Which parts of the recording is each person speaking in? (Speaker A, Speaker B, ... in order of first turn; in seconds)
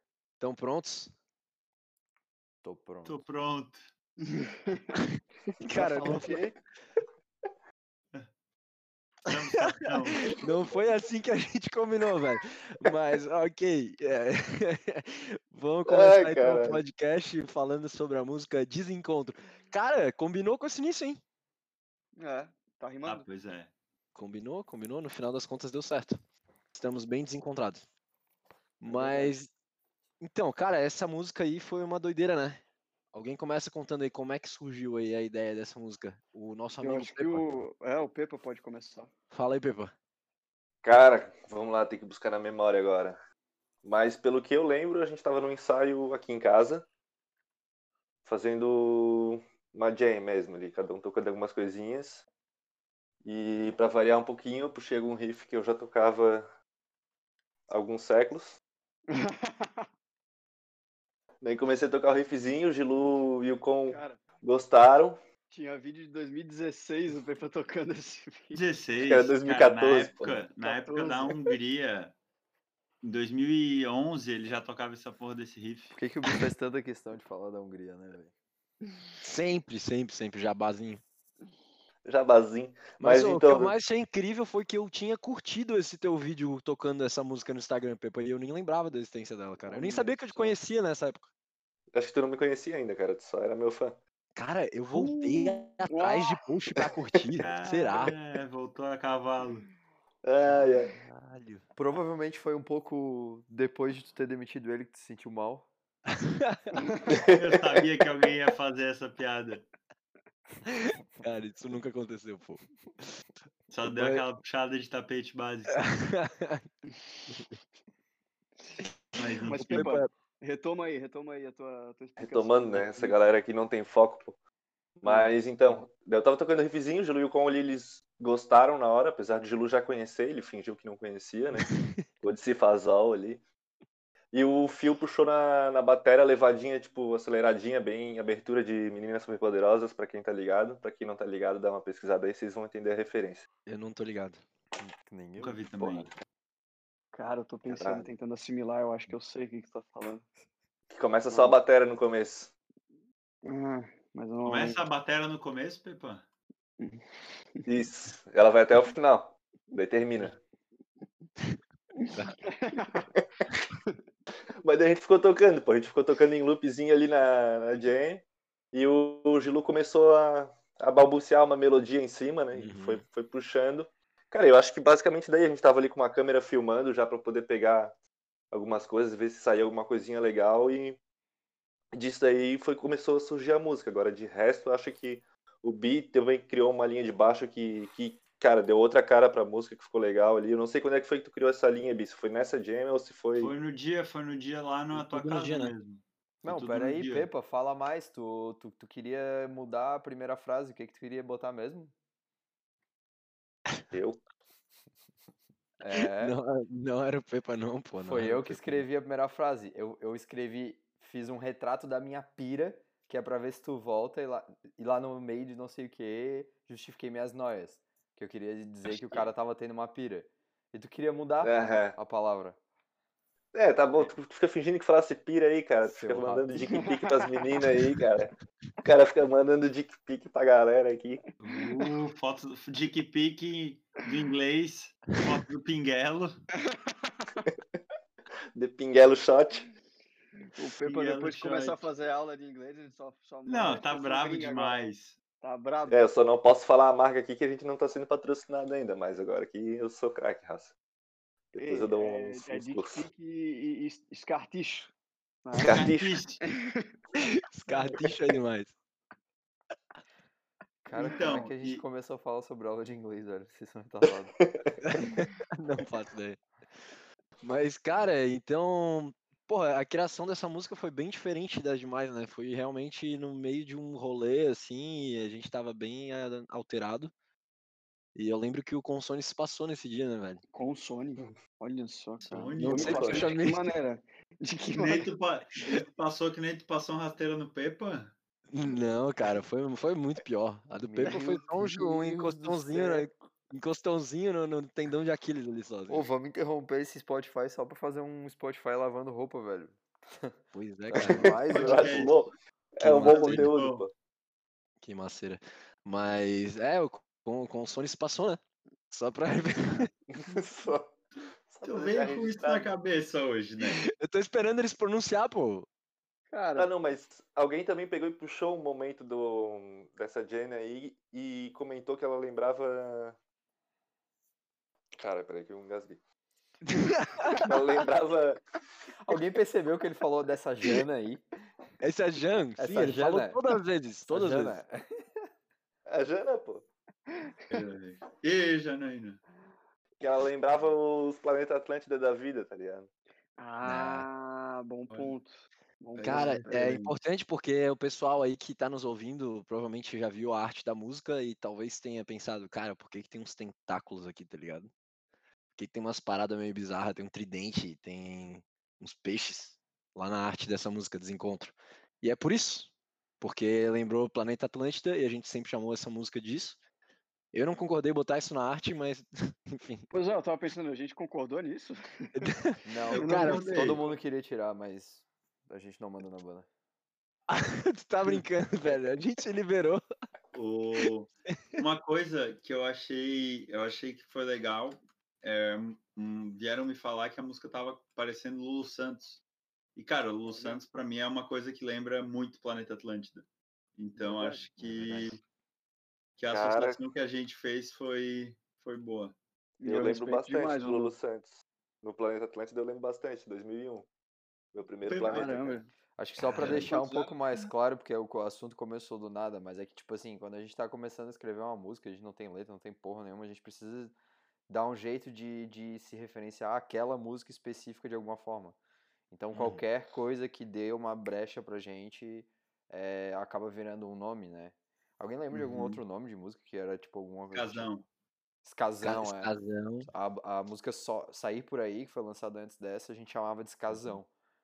Speaker A: 0.4-1.1, 5.0-6.4, 9.3-21.2, 24.1-26.2, 26.7-27.8, 28.8-29.5, 30.2-32.6, 33.1-37.4, 39.3-39.9, 79.2-81.0, 83.0-91.3, 94.3-98.2, 100.8-101.6, 106.1-106.8, 110.7-112.6, 113.8-114.2, 115.7-116.6, 119.5-120.1, 131.6-132.1, 143.7-144.4, 172.5-173.0, 194.9-195.7, 205.9-208.8, 218.9-219.2, 257.2-258.7, 264.8-266.4, 267.4-277.1, 278.1-280.4, 282.6-283.6, 288.5-296.1, 300.5-301.4, 302.8-303.5, 304.8-309.9, 313.6-315.7, 326.7-327.5, 331.8-334.6, 343.6-344.1, 346.0-354.7, 355.6-366.6, 367.3-369.8, 372.2-373.5, 377.3-379.8, 394.6-395.1, 428.8-429.9, 433.7-433.9
Speaker B: 2.6-3.2, 75.9-78.3, 89.7-90.4, 101.8-105.7, 144.8-145.6, 196.4-201.9, 205.8-206.4, 208.0-222.6, 225.8-226.7, 260.8-264.3, 290.8-293.1, 295.9-300.3, 300.9-302.1, 329.0-331.2, 332.6-333.4, 334.1-335.2, 372.6-376.5, 406.0-413.9, 414.5-418.6, 419.1-427.7, 428.4-429.3, 429.9-434.1
Speaker C: 3.0-3.8, 9.3-10.2, 23.0-23.7, 68.5-72.1, 73.0-76.0, 97.4-99.7, 107.3-109.6, 113.7-115.8, 119.2-119.9, 145.4-146.1, 154.4-156.2, 193.3-197.3, 231.4-236.3, 240.8-241.8, 243.4-245.2, 255.7-256.4, 260.9-261.8, 282.3-283.3, 284.8-288.1, 301.5-302.1, 303.0-303.9, 311.6-313.8, 337.5-339.2, 344.9-345.1, 345.9-346.9, 372.9-373.9, 380.3-389.2, 389.7-393.2, 393.8-395.2, 396.2-399.1, 404.9-405.3, 406.3-407.1, 419.3-419.6, 425.3-425.8, 427.3-427.9
Speaker D: 4.7-5.0, 22.2-23.3, 28.9-29.3, 36.8-39.1, 59.1-59.9, 63.9-64.2, 65.5-68.6, 70.6-71.3, 94.9-96.3, 119.4-123.2, 125.0-125.3, 147.1-150.2, 151.3-151.6, 153.4-154.8, 162.0-163.1, 226.7-227.4, 236.7-237.4, 240.6-246.0, 251.6-254.9, 255.4-255.7, 256.4-256.9, 280.5-285.1, 291.0-291.4, 316.3-316.7, 343.4-346.7, 369.9-372.1, 372.9-373.4, 390.3-390.6, 394.0-394.4, 399.6-400.9, 405.0-405.7
Speaker E: 5.7-6.5, 15.8-16.8, 40.8-43.1, 43.8-46.8, 48.2-52.2, 53.2-56.4, 57.7-58.6, 61.4-65.2, 69.0-70.4, 82.0-83.8, 91.9-94.0, 100.2-100.9, 107.1-107.4, 122.2-124.4, 125.0-133.4, 134.3-143.4, 145.8-146.1, 147.7-148.1, 150.9-152.5, 157.7-160.4, 164.6-177.9, 178.5-181.0, 181.9-193.5, 203.9-204.2, 221.4-221.9, 223.5-231.2, 238.5-239.7, 245.9-250.7, 251.5-253.0, 255.6-256.1, 264.4-264.7, 300.9-303.9, 310.2-310.9, 311.5-312.7, 316.6-323.2, 325.0-326.0, 327.4-328.4, 335.9-336.6, 340.0-342.9, 396.3-396.8, 399.6-403.9, 404.5-405.6